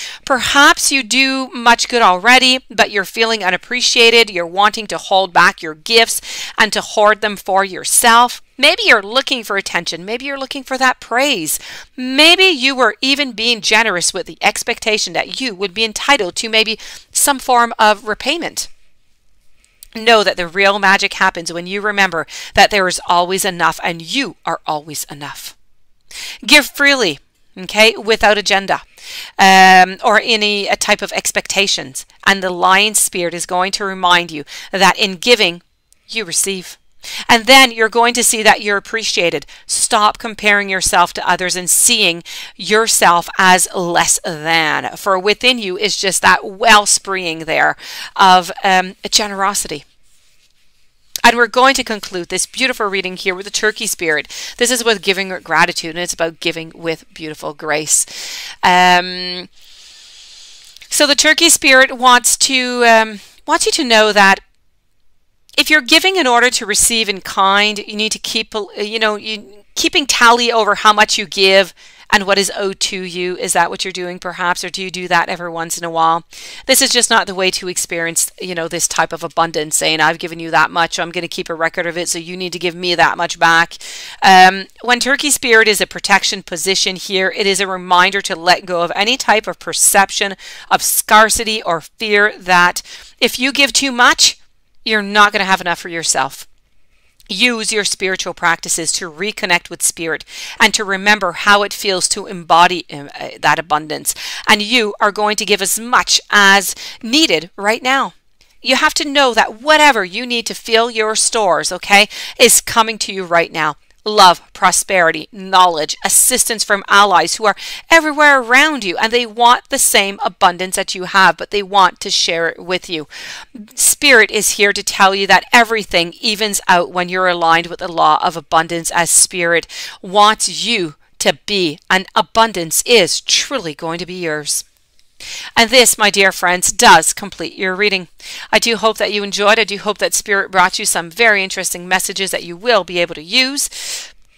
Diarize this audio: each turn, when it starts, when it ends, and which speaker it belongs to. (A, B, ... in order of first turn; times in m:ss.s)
0:00.3-0:18.7 A
0:20.0-0:25.6 A
0:26.4-0:28.8 A
0:29.4-0:49.8 A
0:51.2-0:59.5 A
1:00.9-1:04.4 A
1:05.6-1:36.5 A
1:37.3-2:14.6 A
2:15.6-2:24.1 A